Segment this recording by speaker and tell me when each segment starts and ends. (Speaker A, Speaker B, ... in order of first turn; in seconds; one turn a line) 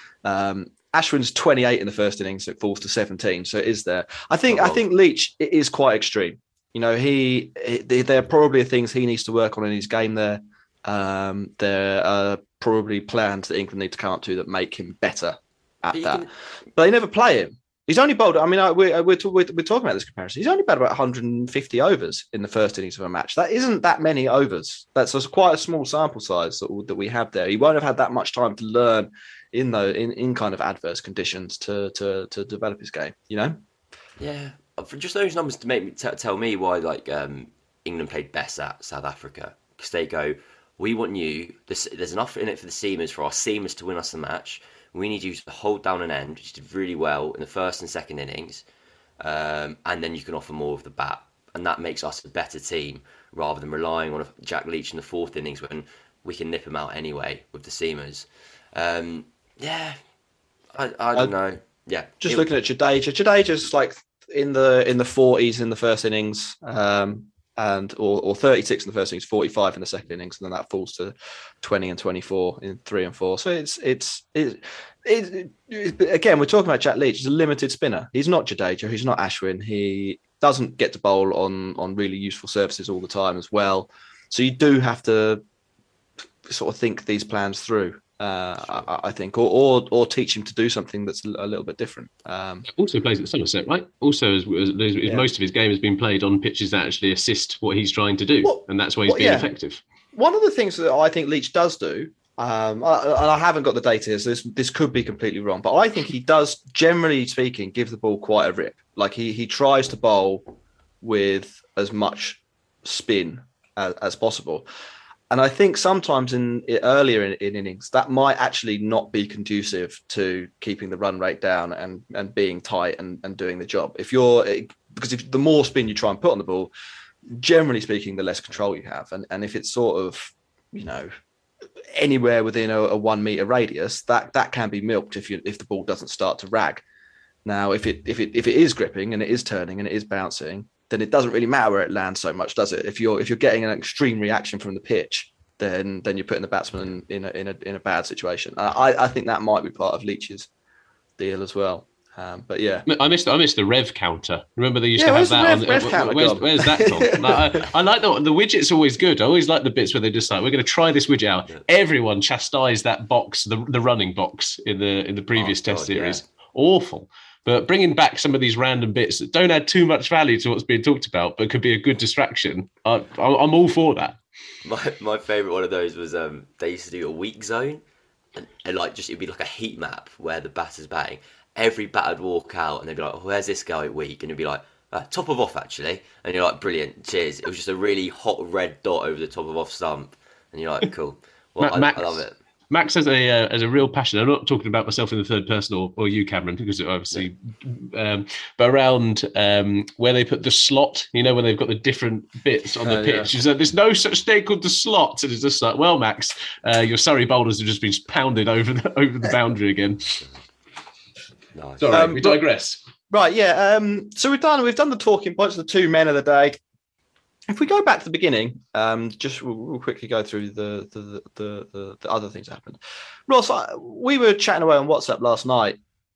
Speaker A: 0.2-33.6
Speaker B: 4.5-4.8
Speaker B: 15.9-16.3
Speaker B: 34.2-48.6
Speaker B: 49.2-60.0
Speaker B: 60.7-62.5
Speaker A: 62.2-85.4
Speaker A: 86.5-92.7
Speaker C: 92.7-99.8
Speaker A: 98.4-99.5
Speaker A: 100.1-110.4
Speaker A: 111.0-114.6
Speaker A: 115.3-126.7
Speaker A: 127.3-131.1
Speaker A: 131.9-136.8
Speaker A: 137.4-150.5
Speaker A: 151.2-152.8
Speaker C: 152.8-174.2
Speaker A: 155.0-157.6
Speaker B: 165.4-166.2
Speaker B: 174.6-177.8
Speaker B: 178.3-192.3
Speaker C: 191.6-210.2
Speaker A: 202.8-203.3
Speaker B: 211.5-211.9
Speaker C: 211.8-212.8
Speaker A: 211.9-212.4
Speaker A: 213.1-216.6
Speaker A: 217.5-225.8